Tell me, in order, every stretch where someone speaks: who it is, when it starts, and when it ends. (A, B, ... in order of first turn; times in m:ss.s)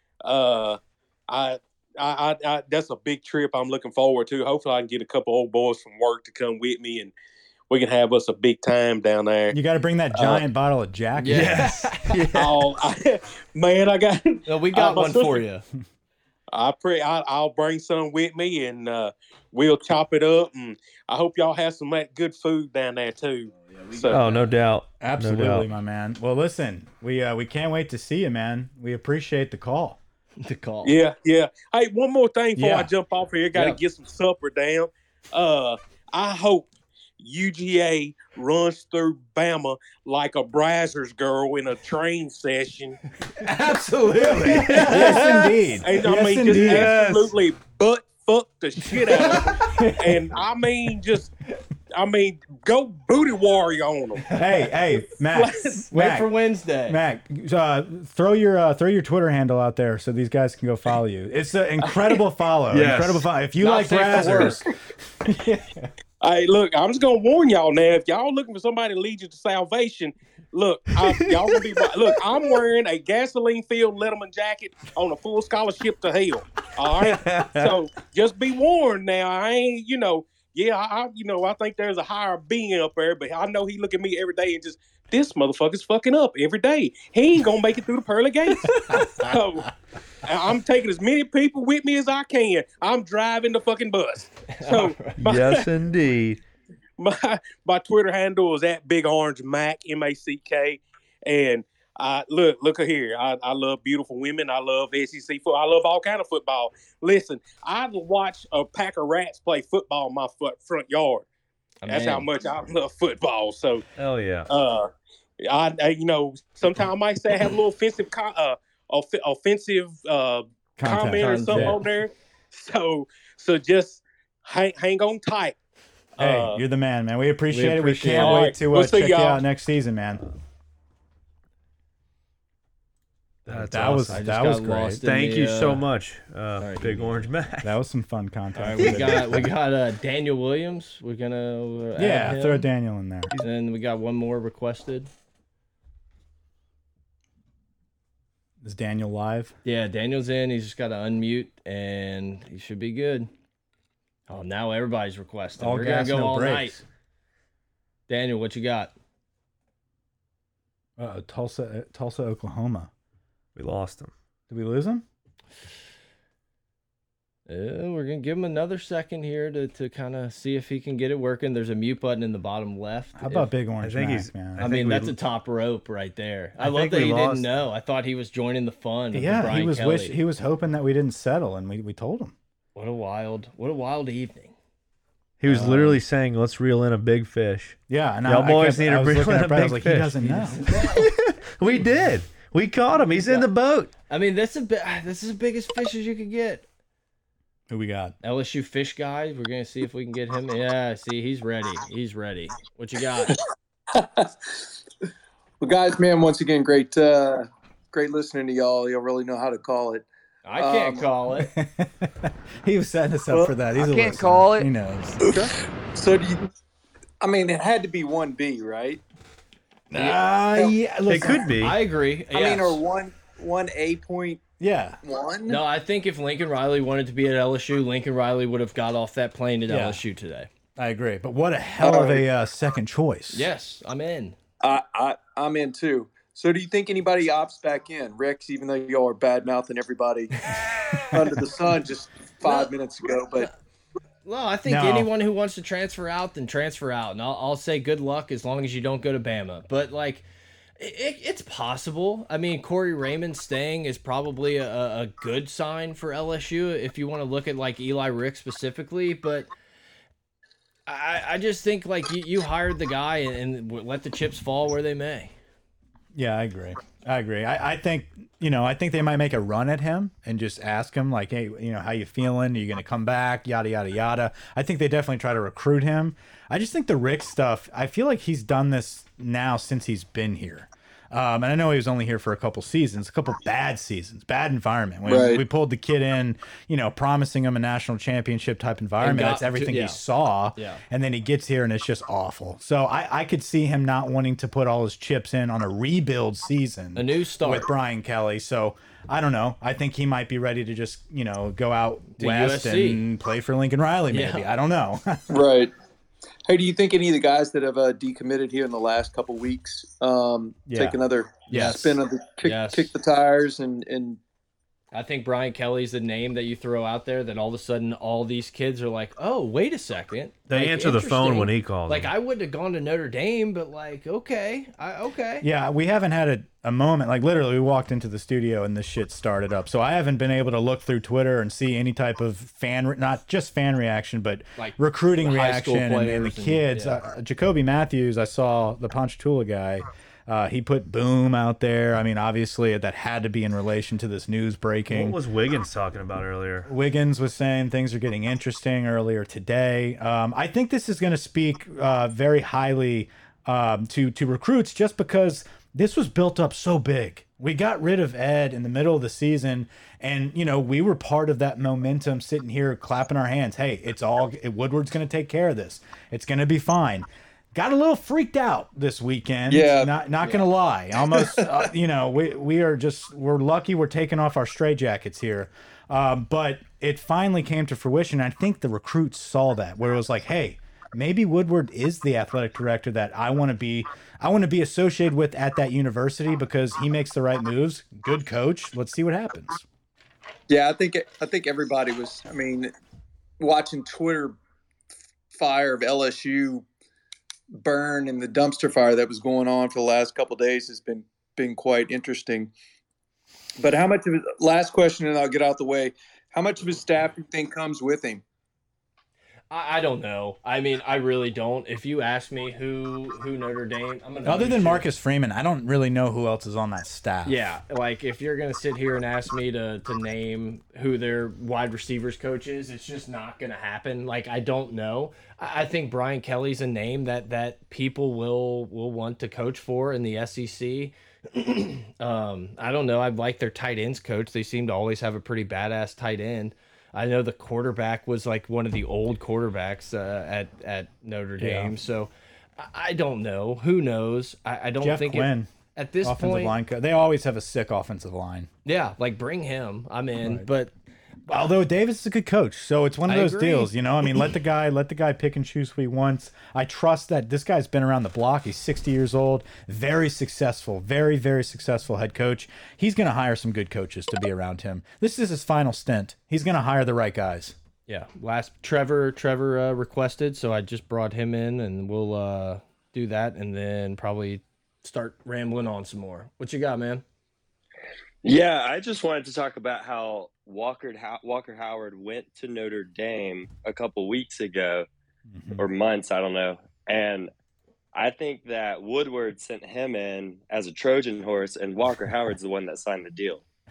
0:00.2-0:07.1 A
0:07.7-0:09.6 A
0:09.5-0:11.9 B
0:10.1-0:10.4 A
0:11.2-0:12.1 C
0:11.3-0:12.7 D
0:12.3-0:15.4 A
0:14.5-0:15.6 C
0:16.5-0:24.2 A
0:23.6-0:24.5 C
0:24.1-0:25.6 D
0:25.0-0:30.0 B
0:30.4-0:31.0 C
0:30.8-0:43.0 A
0:32.6-0:32.9 B
0:33.5-0:33.8 C
0:43.4-0:46.9 B
0:44.4-0:45.7 D
0:44.5-0:45.5 C
0:45.8-0:51.3 A
0:46.5-0:47.3 D
0:49.1-0:50.3 B
0:51.9-0:54.4 A
0:54.3-0:56.3 B
0:55.3-0:55.8 A
0:55.9-0:57.0 C
0:56.9-1:05.9 B
1:02.7-1:03.2 D
1:03.6-1:04.6 C
1:06.2-1:29.7 A
1:17.0-1:17.8 D
1:30.2-1:35.6 A
1:34.5-1:35.2 C
1:35.2-1:36.4 D
1:37.0-1:51.2 A
1:51.8-1:52.3 C
1:51.9-1:53.8 A
1:54.0-1:54.5 D
1:54.5-2:05.6 A
2:00.8-2:01.8 B
2:01.1-2:01.8 C
2:06.2-2:06.6 A
2:06.2-2:10.3 B
2:07.5-2:08.5 C
2:08.2-2:09.4 A
2:13.4-2:14.3 D
2:13.5-2:15.0 B
2:14.1-2:15.8 C
2:15.0-2:17.7 D
2:16.6-2:17.3 C
2:17.6-2:19.5 B
2:18.6-2:22.6 C
2:18.8-2:19.4 D
2:22.0-2:23.3 B
2:23.4-2:25.1 C
2:28.6-2:29.5 B
2:29.6-2:33.3 C
2:34.3-2:36.8 C
2:35.6-2:36.8 B
2:38.1-2:38.9 C
2:41.0-2:42.9 B
2:43.5-2:44.1 D
2:44.5-2:45.0 B
2:47.5-2:53.5 C
2:53.2-2:54.7 B
2:53.8-2:55.2 D
2:54.6-3:00.2 C
2:56.6-2:57.5 D
2:59.1-3:02.3 B
3:02.7-3:04.5 C
3:05.4-3:13.9 D
3:05.5-3:06.0 C
3:07.9-3:10.7 B
3:10.5-3:11.0 C
3:13.2-3:13.5 C
3:14.1-3:16.6 C
3:17.7-3:18.2 B
3:18.2-3:23.4 C
3:23.9-3:24.7 E
3:25.6-3:30.0 E
3:30.4-3:31.5 C
3:30.6-3:31.1 E
3:31.4-3:35.2 B
3:33.3-3:33.5 E
3:34.2-3:34.5 C
3:35.2-3:36.5 E
3:37.2-3:39.0 E
3:39.9-3:41.5 B
3:40.0-3:40.7 E
3:41.1-3:41.8 D
3:41.6-3:42.8 C
3:42.3-3:44.4 E
3:44.6-3:45.0 B
3:45.0-3:45.6 E
3:45.5-3:50.5 C
3:49.7-3:50.0 B
3:50.8-3:53.5 B
3:51.8-3:52.2 E
3:53.3-3:54.4 C
3:54.6-4:03.5 E
4:02.4-4:02.7 C
4:04.2-4:10.2 C
4:04.6-4:05.1 B
4:10.8-4:19.5 C
4:20.9-4:25.3 C
4:26.1-5:05.4 B
4:45.0-4:45.4 E
4:49.0-4:50.0 C
4:50.6-4:50.8 C
4:56.9-4:57.7 C
5:02.2-5:03.0 C
5:04.1-5:04.5 C
5:05.3-5:05.7 E
5:06.5-5:14.2 E
5:10.7-5:11.0 B
5:11.5-5:11.8 B
5:11.5-5:12.9 C
5:14.9-5:25.5 C
5:20.5-5:22.1 D
5:25.4-5:45.2 B
5:34.6-5:37.0 C
5:44.9-5:46.7 D
5:46.6-6:29.6 B
6:09.5-6:09.9 E
6:11.0-6:11.5 E
6:30.5-6:32.7 E
6:33.4-6:34.4 E
6:35.3-6:36.6 E
6:37.6-6:42.5 E
6:43.6-6:48.2 E
6:49.5-6:54.8 C
6:54.2-6:57.5 B
6:57.2-7:26.6 C
7:21.4-7:21.7 B
7:24.8-7:25.5 B
7:26.0-7:28.5 B
7:28.6-7:30.7 C
7:30.2-7:30.5 B
7:31.3-7:47.6 B
7:33.1-7:33.7 C
7:47.9-7:57.0 C
7:58.2-8:04.9 F
8:05.3-8:05.6 B
8:05.6-8:07.3 F
8:07.9-8:13.4 F